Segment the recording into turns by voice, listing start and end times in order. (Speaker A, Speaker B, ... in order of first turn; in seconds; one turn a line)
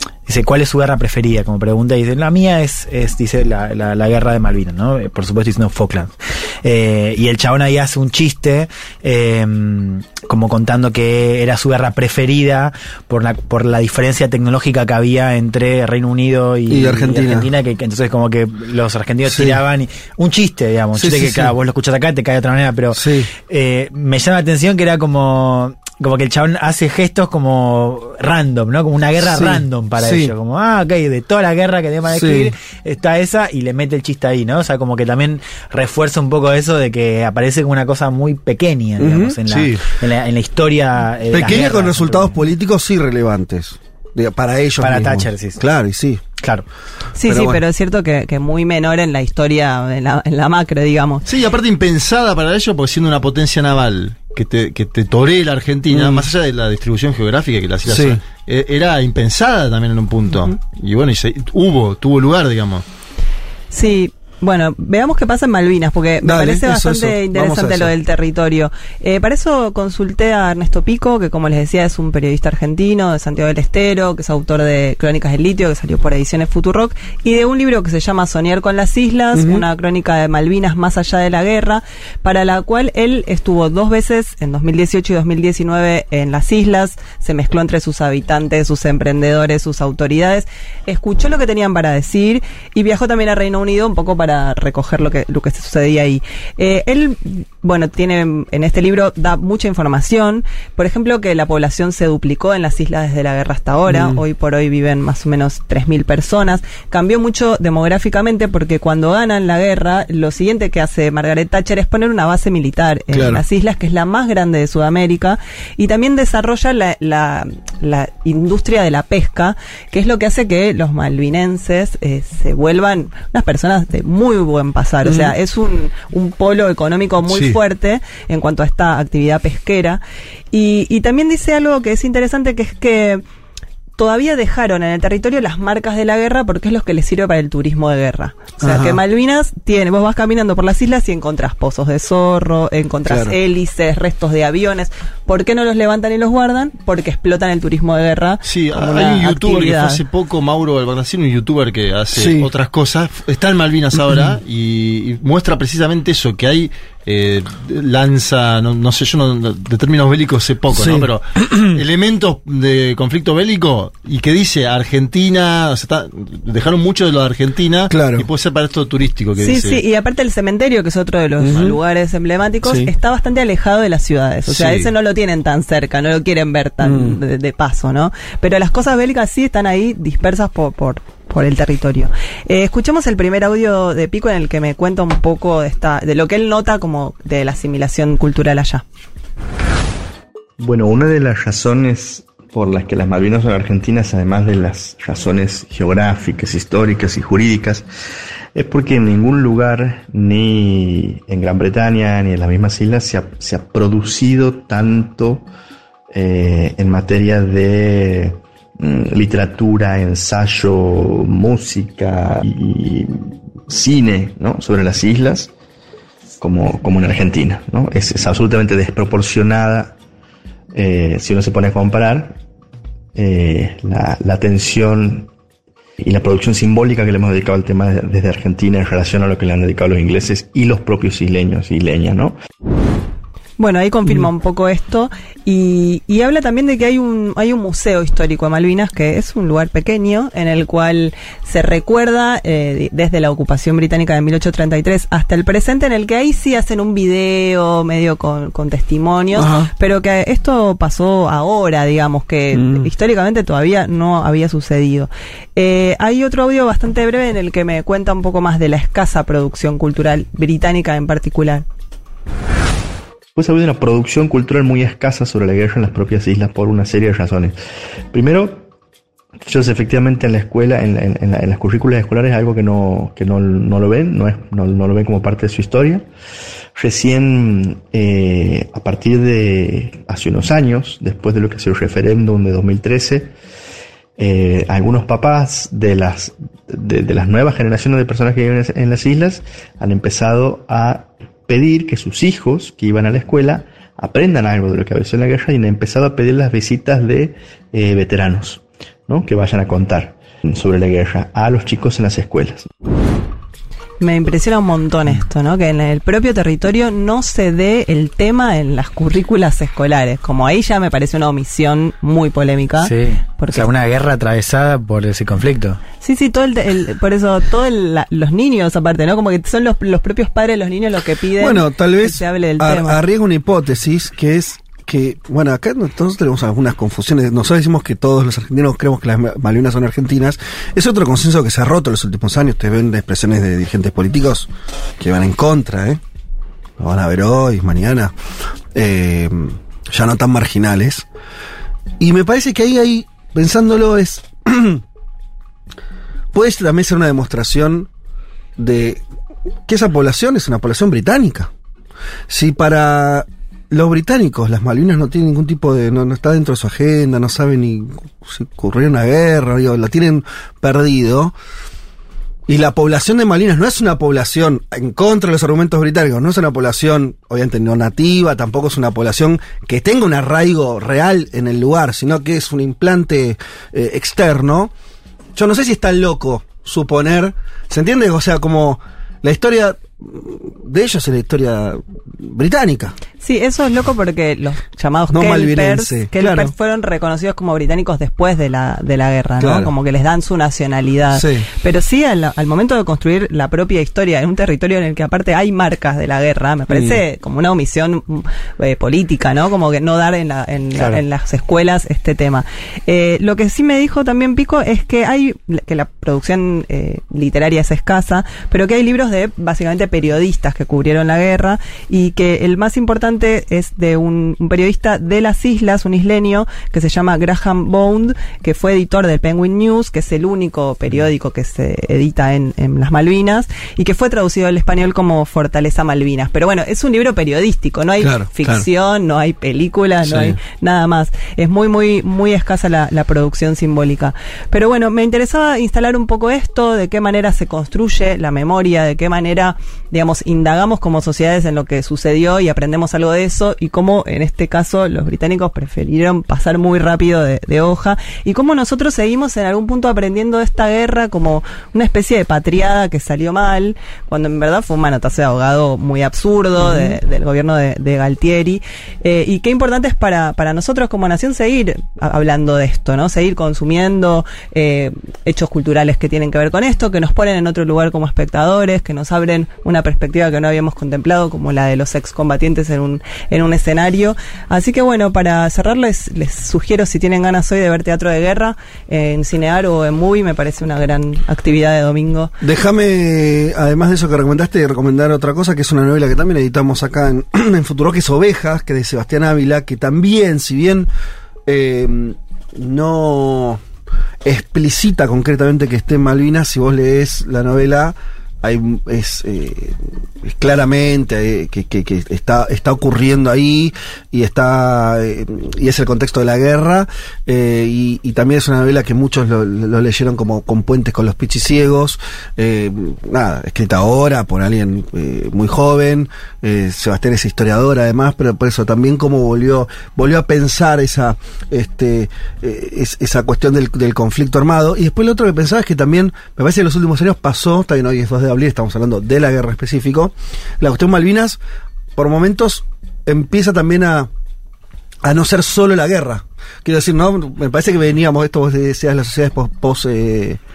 Speaker A: 0.3-42.4
Speaker B: 16.7-17.5
Speaker B: 19.3-19.6
Speaker B: 20.9-21.5
Speaker B: 23.0-23.3
Speaker B: 29.2-30.3
Speaker B: 32.1-32.5
Speaker B: 39.0-39.4
Speaker C: 39.5-39.8
Speaker B: 41.3-46.2
Speaker A: 44.8-45.6
Speaker A: 46.4-46.7
Speaker D: 47.2-51.2
Speaker B: 47.2-47.6
Speaker C: 51.3-62.8
Speaker B: 55.9-56.3
Speaker B: 57.9-58.2
Speaker D: 63.7-133.2
Speaker B: 66.2-67.9
Speaker B: 79.3-79.7
Speaker B: 103.9-104.2
Speaker B: 113.1-113.4
Speaker D: 134.0-150.0
Speaker B: 138.6-139.0
Speaker B: 143.1-143.4
Speaker C: 148.4-169.8
Speaker B: 152.1-152.5
Speaker B: 154.1-154.3
Speaker B: 160.7-161.8
Speaker B: 167.9-168.3
Speaker D: 169.4-188.8
Speaker B: 171.4-171.8
Speaker B: 172.6-172.9
Speaker C: 174.5-174.8
Speaker B: 176.8-177.2
Speaker E: 190.6-197.8
Speaker E: 198.6-205.5
Speaker E: 206.1-213.2
Speaker E: 213.7-215.5
Speaker E: 216.4-220.0
Speaker E: 220.7-222.4
Speaker E: 223.2-225.3
Speaker E: 226.0-232.4
Speaker D: 233.6-261.6
Speaker B: 249.3-249.7
Speaker B: 252.5-252.9
Speaker E: 263.4-267.6
Speaker E: 268.1-268.7
Speaker E: 269.4-276.1
Speaker E: 276.8-283.3
Speaker E: 284.2-302.7
Speaker D: 304.0-313.7
Speaker A: 312.8-315.8
Speaker D: 316.0-323.0
Speaker B: 321.4-336.0
Speaker B: 336.8-338.1
Speaker B: 338.8-341.1
Speaker B: 342.0-344.8
Speaker B: 346.3-347.9
Speaker B: 348.6-349.0
Speaker B: 349.7-351.5
Speaker B: 352.3-361.3
Speaker B: 362.5-374.7
Speaker B: 375.4-383.0
Speaker D: 383.2-482.4
Speaker B: 385.1-386.5
Speaker B: 389.4-389.7
Speaker B: 391.1-391.5
Speaker B: 396.7-397.0
Speaker B: 428.0-428.7
Speaker B: 430.0-430.4
Speaker B: 456.6-457.0
Speaker B: 482.4-490.9
Speaker B: 491.5-493.6
Speaker B: 494.2-531.4
Speaker B: 532.0-534.1
Speaker B: 535.0-540.4